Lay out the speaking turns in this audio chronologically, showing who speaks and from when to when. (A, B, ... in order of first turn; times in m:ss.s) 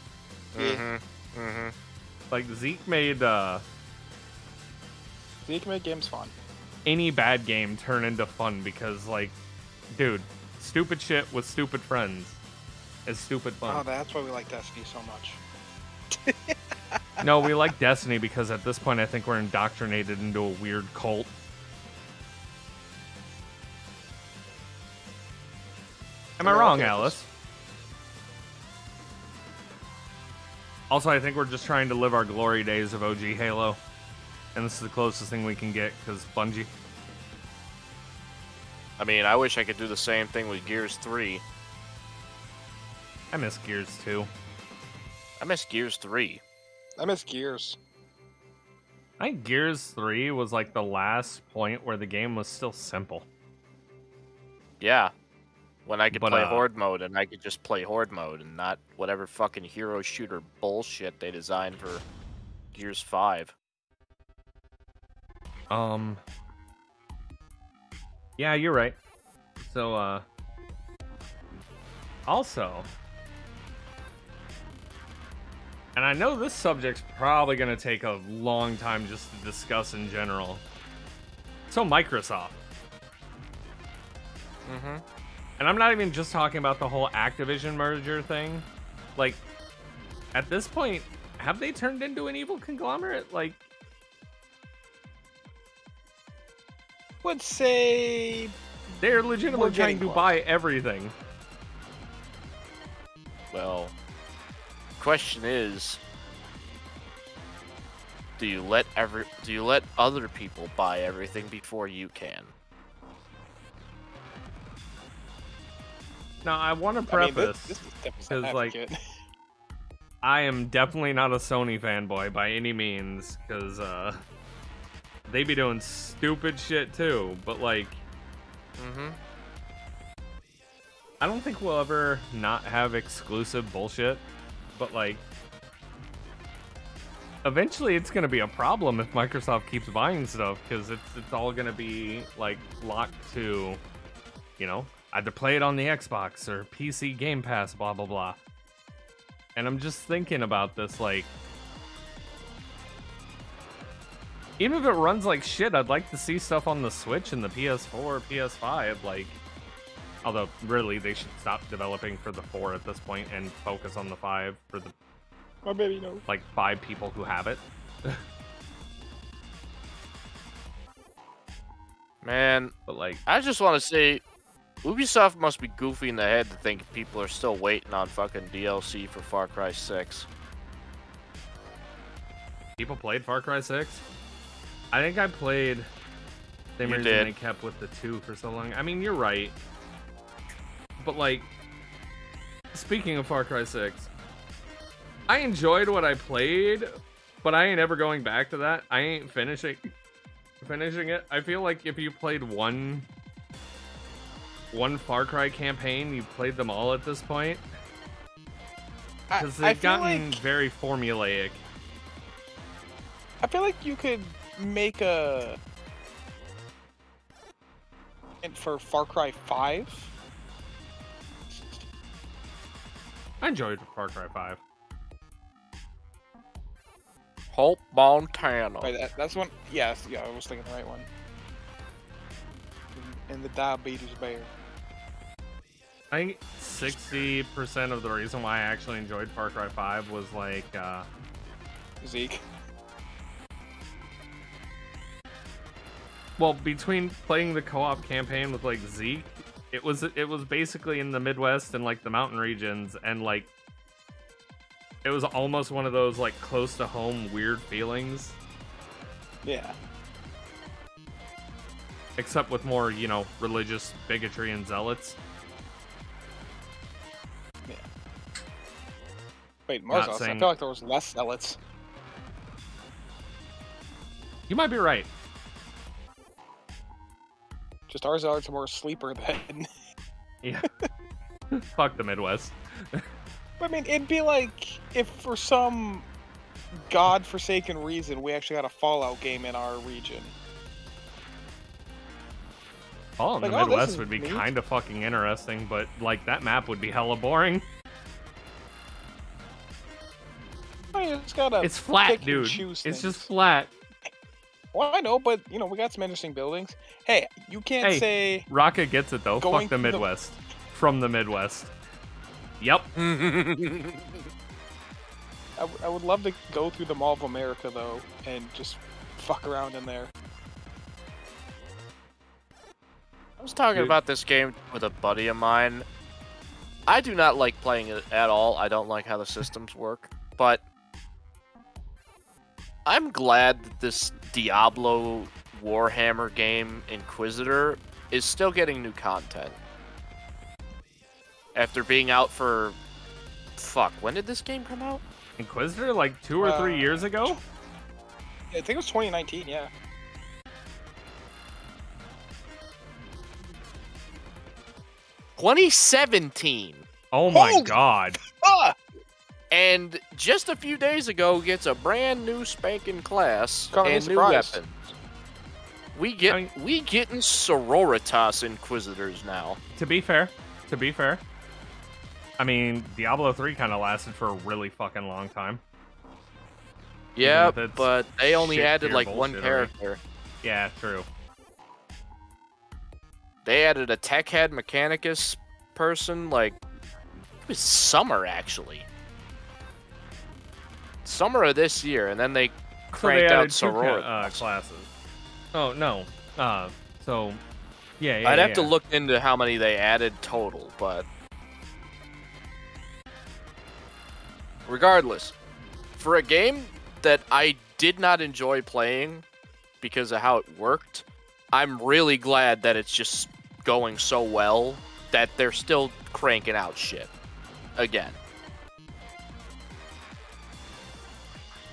0:00.5-0:00.8 A
0:00.5-0:01.7 B
0:02.3-0:03.6 C
0:05.4-0:06.3 A
0:06.8-0:09.4 C
0:09.9-0:12.4 C
0:13.1-0:13.8 C
0:13.6-0:15.4 A
0:16.1-0:17.5 A
0:17.2-0:21.3 C
0:26.4-0:27.3 C
0:26.4-0:27.2 A
0:30.9-0:33.8 C
0:34.6-0:36.7 C
0:39.0-0:41.4 B
0:43.3-0:44.3 C
0:45.4-0:46.4 B
0:47.0-0:47.8 A
0:49.2-0:53.2 C
0:54.8-0:55.1 B
0:55.8-1:02.0 B
0:56.1-0:56.6 C
1:02.7-1:03.5 B
1:05.7-1:06.2 C
1:08.4-1:09.0 C
1:09.6-1:10.2 C
1:12.3-1:12.9 C
1:15.9-1:20.6 C
1:21.7-1:22.6 C
1:24.7-1:25.0 B
1:25.6-1:29.4 C
1:30.3-1:33.6 C
1:37.2-1:38.6 A
1:39.0-1:41.1 C
1:39.4-1:40.3 A
1:43.5-1:43.9 B
1:45.0-1:46.0 B
1:48.4-1:52.5 B
1:56.4-1:58.8 C
1:57.1-1:59.0 A
2:00.2-2:04.2 C
2:05.3-2:08.0 C
2:08.8-2:09.2 B
2:11.2-2:15.2 C
2:17.4-2:23.8 C
2:24.6-2:28.4 C
2:29.6-2:31.3 C
2:34.6-2:39.4 C
2:40.2-2:44.9 C
2:45.6-2:46.2 A
2:46.3-2:48.2 C
2:52.2-2:52.7 B
2:52.9-2:53.2 C
2:53.2-2:54.2 B
2:54.8-3:00.3 B
3:02.8-3:04.0 C
3:04.9-3:05.9 C
3:06.8-3:09.6 C
3:06.8-3:07.3 B
3:11.0-3:11.5 C
3:12.7-3:14.1 C
3:15.3-3:16.9 C
3:17.4-3:19.9 C
3:20.6-3:23.1 C
3:24.7-3:27.7 C
3:29.3-3:30.4 A
3:29.4-3:31.6 C
3:33.4-3:35.6 A
3:38.4-3:40.1 A
3:41.5-3:41.8 A
3:43.4-3:44.6 C
3:47.5-3:48.9 B
3:48.8-3:51.1 A
3:52.9-3:54.5 A
3:56.1-4:01.1 C
3:56.8-3:57.3 B
4:02.0-4:02.4 A
4:06.4-4:13.5 C
4:15.0-4:18.4 C
4:19.4-4:19.7 A
4:22.2-4:25.2 C
4:29.7-4:31.6 A
4:29.9-4:30.5 C
4:34.5-4:35.1 C
4:37.9-4:39.7 A
4:41.5-4:43.1 C
4:43.6-4:46.1 A
4:46.8-4:50.3 A
4:53.2-4:57.6 C
4:53.4-4:54.5 A
5:00.9-5:03.3 A
5:01.6-5:03.7 C
5:04.7-5:08.5 A
5:07.8-5:11.7 C
5:09.4-5:10.1 A
5:12.6-5:12.9 C
5:13.0-5:14.2 B
5:15.6-5:20.1 A
5:23.4-5:25.8 B
5:26.9-5:30.6 B
5:32.8-5:39.6 B
5:41.6-5:42.8 B
5:43.6-5:45.0 B
5:45.4-5:47.4 C
5:46.4-5:47.4 A
5:48.5-5:49.7 A
5:55.4-5:56.9 B
5:57.1-5:58.2 C
5:57.3-5:58.8 A
5:59.5-6:04.9 B
6:03.7-6:04.6 A
6:05.9-6:09.6 B
6:09.7-6:11.2 C
6:12.4-6:15.6 C
6:17.2-6:20.0 B
6:17.2-6:19.7 C
6:20.4-6:21.1 C
6:23.4-6:26.6 B
6:27.5-6:28.9 B
6:31.0-6:34.4 B
6:32.9-6:34.9 C
6:35.5-6:37.4 C
6:38.0-6:38.7 C
6:38.2-6:41.1 B
6:44.7-6:45.3 B
6:46.0-6:49.2 B
6:49.8-6:57.1 B
6:57.8-6:58.2 B